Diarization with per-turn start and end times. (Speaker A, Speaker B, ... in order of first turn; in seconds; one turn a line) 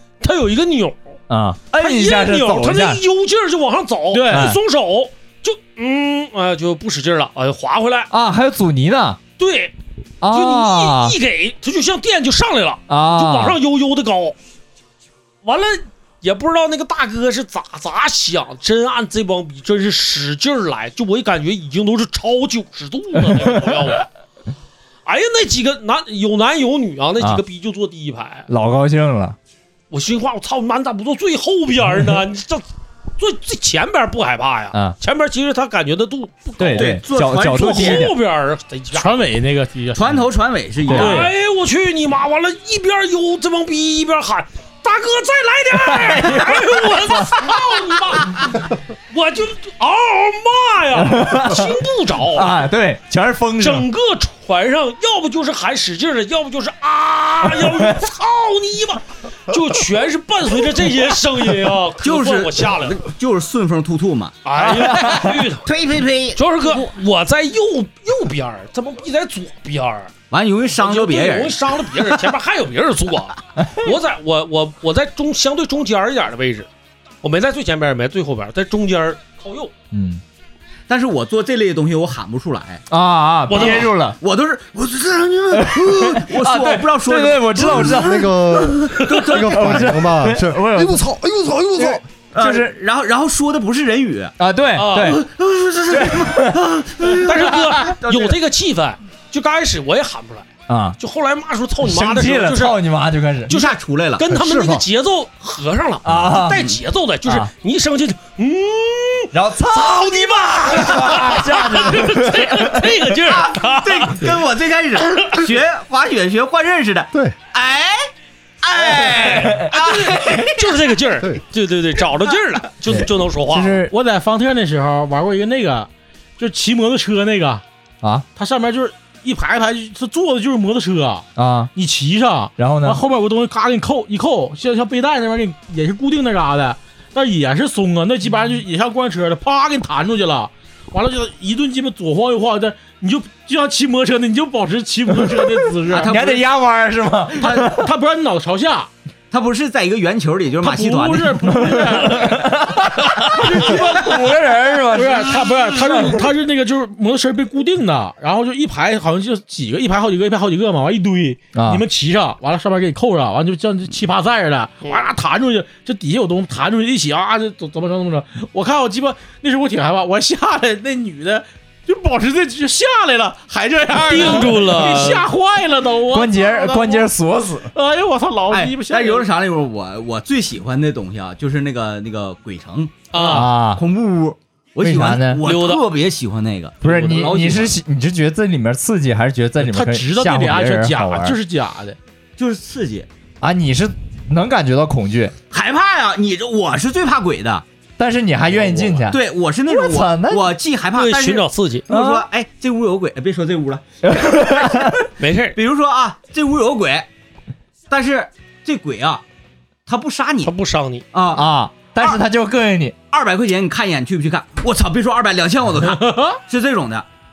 Speaker A: 0.2-1.1
Speaker B: 1.3-3.0
Speaker A: 1.7-8.1
Speaker C: 4.1-4.6
Speaker B: 4.3-4.6
Speaker B: 8.1-9.2
Speaker A: 9.4-9.7
Speaker B: 10.2-11.2
Speaker A: 10.3-14.4
Speaker B: 12.9-13.6
Speaker A: 15.4-24.1
Speaker B: 23.3-23.8
Speaker A: 25.1-28.5
Speaker B: 28.5-29.4
Speaker A: 29.9-32.7
Speaker A: 33.2-39.1
Speaker B: 36.6-38.2
Speaker D: 36.8-38.1
Speaker C: 38.9-40.0
Speaker D: 39.9-41.3
Speaker B: 40.9-41.2
Speaker A: 40.9-52.6
Speaker C: 41.0-41.3
Speaker B: 45.8-47.5
Speaker B: 51.0-51.7
Speaker B: 52.3-53.9
Speaker A: 53.6-63.0
Speaker B: 57.4-58.0
Speaker D: 62.0-66.8
Speaker A: 64.4-65.7
Speaker B: 64.7-65.4
Speaker A: 66.4-70.1
Speaker D: 70.3-72.0
Speaker A: 70.8-76.7
Speaker A: 77.2-79.7
Speaker B: 79.9-80.2
Speaker D: 80.9-82.8
Speaker B: 82.9-84.2
Speaker A: 83.5-83.9
Speaker D: 83.5-89.9
Speaker B: 85.5-88.7
Speaker E: 87.6-92.0
Speaker B: 89.3-91.0
Speaker B: 91.8-92.7
Speaker D: 92.3-94.3
Speaker B: 94.4-95.2
Speaker A: 94.8-95.2
Speaker D: 94.9-98.4
Speaker B: 95.9-96.6
Speaker A: 97.2-102.8
Speaker B: 100.7-101.0
Speaker B: 101.8-103.6
Speaker A: 103.5-114.3
Speaker D: 103.5-104.8
Speaker B: 106.0-106.6
Speaker D: 106.5-106.8
Speaker B: 109.3-113.2
Speaker D: 113.2-118.1
Speaker D: 118.6-120.8
Speaker A: 118.9-123.8
Speaker B: 119.2-119.7
Speaker B: 122.9-123.9
Speaker C: 123.8-127.6
Speaker C: 128.3-146.1
Speaker B: 131.4-131.7
Speaker B: 132.6-133.0
Speaker B: 145.1-147.9
Speaker D: 145.9-146.5
Speaker C: 147.4-148.9
Speaker D: 149.3-151.7
Speaker C: 150.6-152.7
Speaker B: 151.5-156.3
Speaker A: 153.2-153.5
Speaker C: 153.4-154.4
Speaker C: 154.9-177.1
Speaker B: 161.5-161.8
Speaker A: 173.9-175.3
Speaker B: 176.1-177.7
Speaker C: 177.7-179.3
Speaker D: 178.5-187.8
Speaker A: 183.1-183.5
Speaker C: 183.2-183.4
Speaker B: 183.2-183.8
Speaker B: 184.8-185.5
Speaker A: 185.4-185.8
Speaker B: 186.8-191.4
Speaker A: 186.8-187.3
Speaker C: 189.6-192.0
Speaker D: 192.4-193.1
Speaker B: 193.4-195.3
Speaker D: 195.5-197.7
Speaker B: 198.0-200.6
Speaker D: 198.5-205.0
Speaker A: 200.9-201.9
Speaker B: 201.9-202.2
Speaker B: 204.0-205.1
Speaker A: 205.2-205.6
Speaker D: 205.6-207.1
Speaker D: 207.9-209.2
Speaker D: 209.9-210.5
Speaker A: 210.4-211.1
Speaker D: 211.1-211.5
Speaker B: 211.3-213.0
Speaker D: 213.1-217.1
Speaker C: 215.8-216.4